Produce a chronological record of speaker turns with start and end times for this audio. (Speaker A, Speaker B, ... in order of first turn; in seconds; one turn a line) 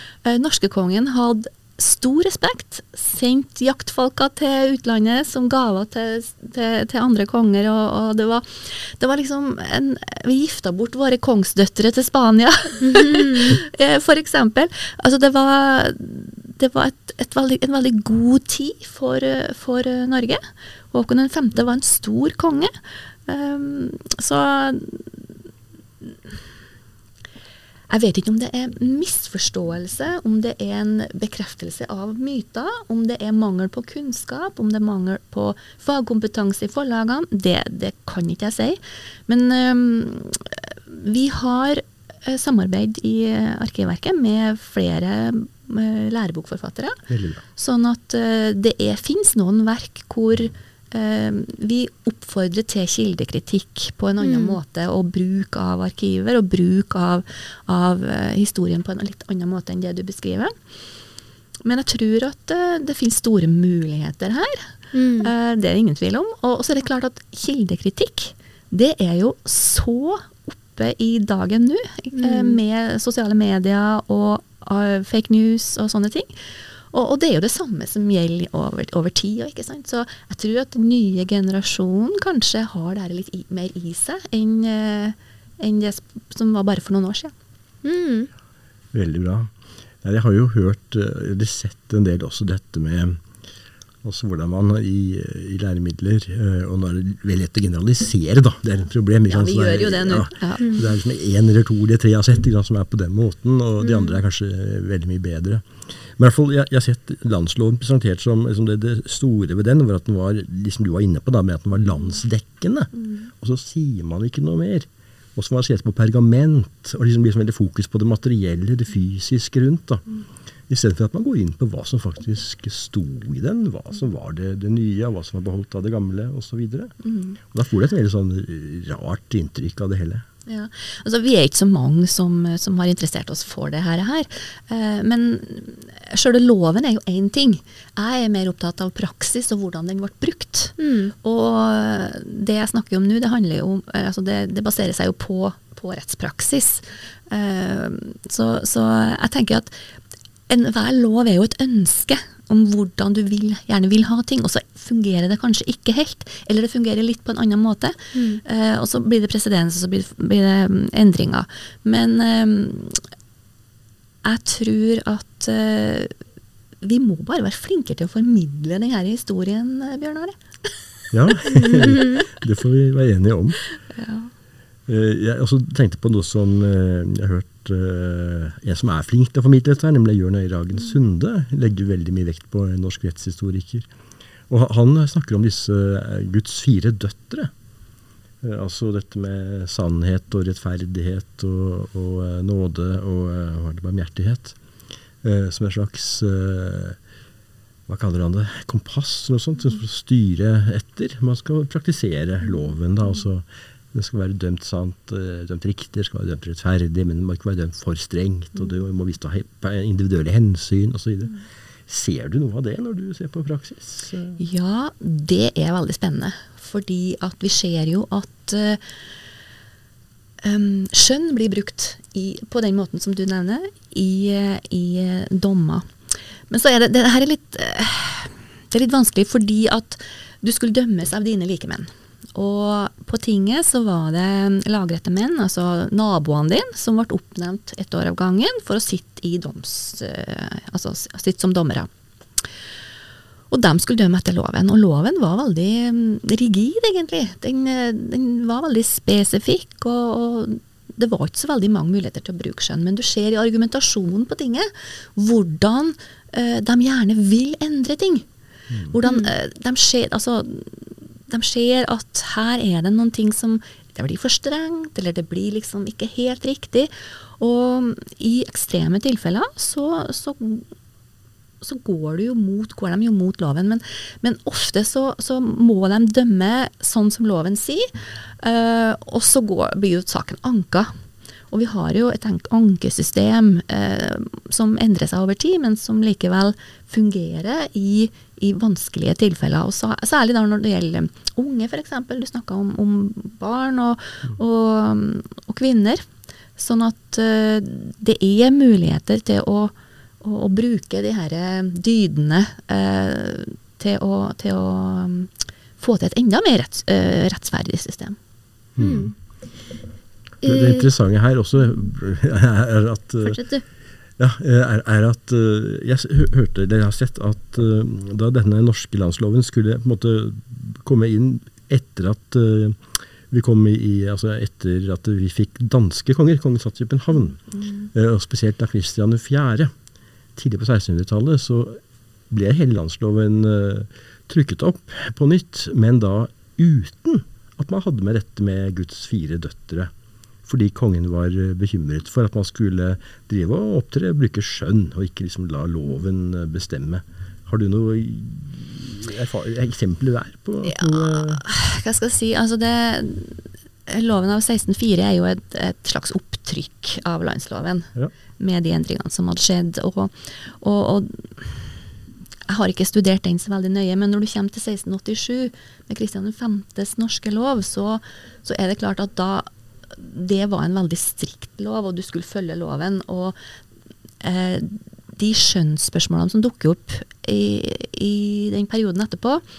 Speaker A: 0.2-22.7
Speaker B: 12.8-13.6
Speaker A: 23.3-25.1
Speaker A: 27.9-47.0
Speaker C: 47.1-47.4
Speaker A: 47.6-60.5
Speaker B: 54.2-54.6
Speaker A: 61.6-76.3
Speaker B: 64.9-65.3
Speaker B: 72.1-72.6
Speaker A: 76.9-87.3
Speaker B: 87.8-88.3
Speaker C: 88.9-93.2
Speaker C: 94.0-120.1
Speaker A: 99.3-100.7
Speaker C: 120.7-126.9
Speaker A: 127.0-127.4
Speaker C: 127.5-130.2
Speaker A: 130.4-149.8
Speaker B: 140.8-141.1
Speaker A: 150.5-163.0
Speaker B: 158.1-158.4
Speaker A: 164.2-166.1
Speaker A: 166.8-170.4
Speaker C: 171.1-173.6
Speaker B: 171.5-172.2
Speaker A: 173.9-174.3
Speaker C: 174.9-183.9
Speaker C: 184.5-187.5
Speaker C: 188.4-194.6
Speaker C: 195.2-197.0
Speaker C: 197.9-214.4
Speaker A: 214.4-218.8
Speaker A: 220.4-225.9
Speaker A: 226.5-241.9
Speaker A: 243.5-258.2
Speaker A: 258.9-270.6
Speaker B: 259.0-259.3
Speaker A: 271.6-280.9
Speaker A: 281.5-296.0
Speaker A: 296.6-308.2
Speaker C: 308.8-309.1
Speaker B: 308.8-309.1
Speaker B: 310.4-310.9
Speaker C: 310.4-313.4
Speaker B: 313.2-313.6
Speaker C: 314.2-327.4
Speaker C: 327.9-329.7
Speaker C: 330.3-339.9
Speaker C: 340.4-351.4
Speaker A: 350.6-361.7
Speaker A: 362.5-373.4
Speaker A: 374.2-379.4